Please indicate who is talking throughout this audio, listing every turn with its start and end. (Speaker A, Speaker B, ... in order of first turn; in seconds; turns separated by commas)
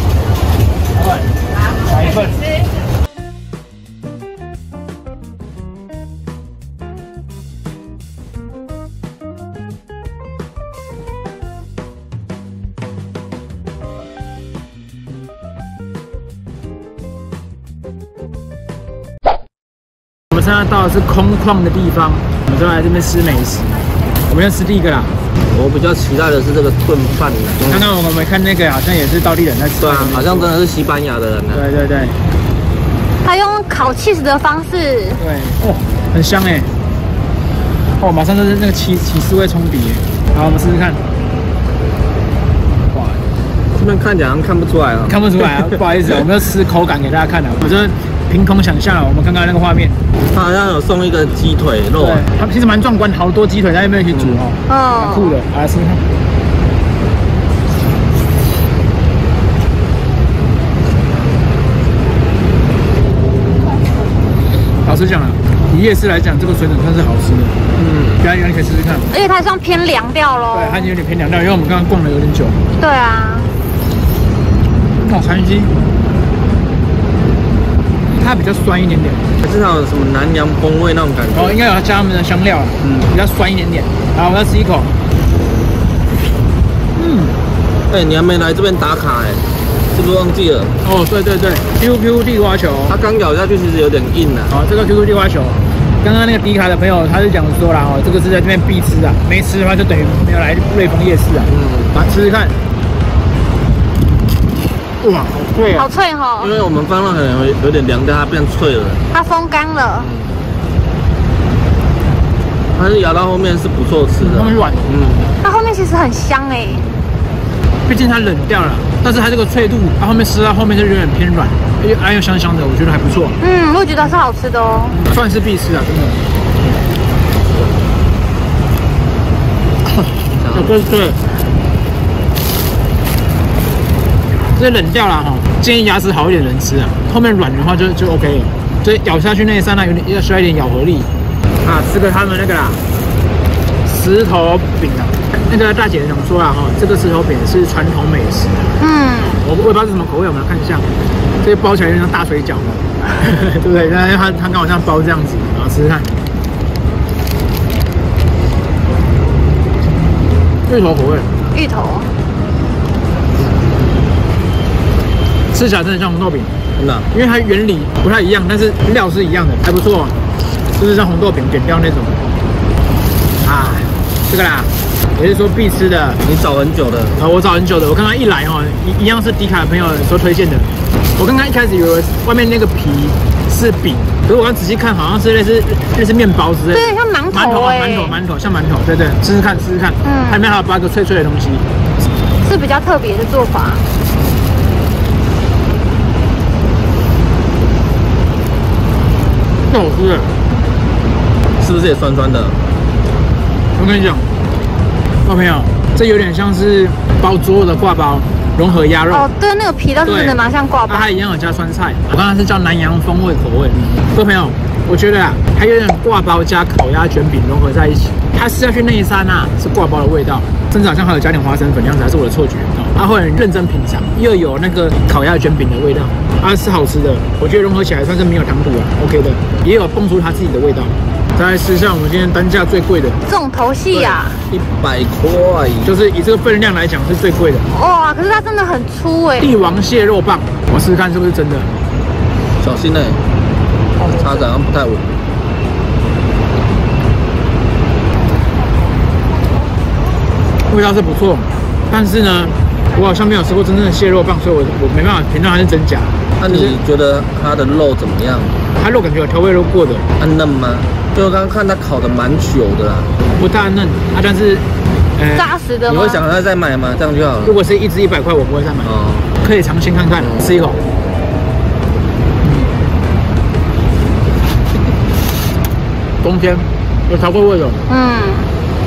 Speaker A: 1.0-2.5, Speaker A: 20.3-23.7, Speaker A: 24.3-25.1, Speaker B: 25.5-27.9, Speaker A: 27.7-30.5, Speaker B: 29.8-31.6, Speaker A: 31.5-32.2, Speaker C: 33.2-35.2, Speaker A: 35.2-36.7, Speaker A: 38.0-41.0, Speaker A: 42.9-43.2, Speaker B: 43.7-45.8, Speaker A: 45.1-50.0, Speaker B: 50.3-52.2, Speaker A: 52.0-56.0, Speaker B: 54.1-54.4, Speaker C: 54.7-55.4, Speaker A: 64.8-67.6, Speaker B: 67.8-68.2, Speaker A: 68.2-69.1, Speaker C: 69.1-70.9, Speaker A: 70.5-72.6, Speaker C: 72.8-73.5, Speaker A: 75.0-75.7, Speaker A: 78.1-79.3, Speaker B: 79.4-81.6, Speaker A: 81.3-84.9, Speaker B: 82.8-83.1, Speaker A: 86.9-87.4, Speaker B: 87.9-90.7, Speaker A: 90.8-93.0, Speaker B: 92.9-94.5, Speaker A: 94.5-102.5, Speaker B: 101.5-101.9, Speaker A: 105.0-105.9, Speaker C: 105.8-106.5, Speaker B: 106.4-109.0, Speaker C: 109.1-110.1, Speaker B: 110.0-110.4, Speaker B: 112.8-115.3, Speaker A: 114.2-115.3, Speaker C: 115.4-116.9, Speaker A: 117.9-123.4, Speaker C: 123.4-125.0, Speaker A: 125.0-126.2, Speaker A: 129.9-131.2, Speaker B: 130.3-130.8, Speaker A: 134.6-141.1, Speaker A: 141.6-142.8, Speaker A: 143.9-148.7, Speaker C: 148.8-149.4, Speaker A: 149.4-150.9, Speaker A: 151.4-156.1, Speaker A: 160.7-161.3, Speaker C: 161.5-162.1, Speaker A: 165.5-166.5, Speaker B: 166.8-167.1, Speaker A: 167.1-170.1, Speaker A: 170.8-172.2, Speaker A: 173.4-176.2, Speaker B: 176.2-177.2, Speaker A: 177.2-191.6, Speaker C: 186.7-188.2, Speaker C: 190.0-190.4, Speaker C: 192.4-193.8, Speaker A: 199.7-200.3, Speaker B: 201.6-202.6, Speaker A: 203.8-204.3, Speaker A: 205.2-209.3, Speaker C: 209.1-211.1, Speaker A: 210.0-233.2, Speaker C: 233.3-234.4, Speaker A: 233.9-234.2, Speaker B: 234.5-235.9, Speaker A: 235.8-237.7, Speaker C: 237.7-239.5, Speaker A: 239.4-241.8, Speaker B: 242.6-243.2, Speaker B: 244.0-245.1, Speaker A: 250.7-256.7, Speaker B: 256.4-258.6, Speaker A: 258.8-260.1, Speaker B: 260.2-263.1, Speaker A: 263.4-264.6, Speaker A: 265.1-265.5, Speaker C: 265.4-266.2, Speaker B: 265.9-267.6, Speaker A: 267.4-270.8, Speaker B: 268.8-269.3, Speaker A: 272.4-272.7, Speaker A: 276.2-277.8, Speaker C: 277.9-278.5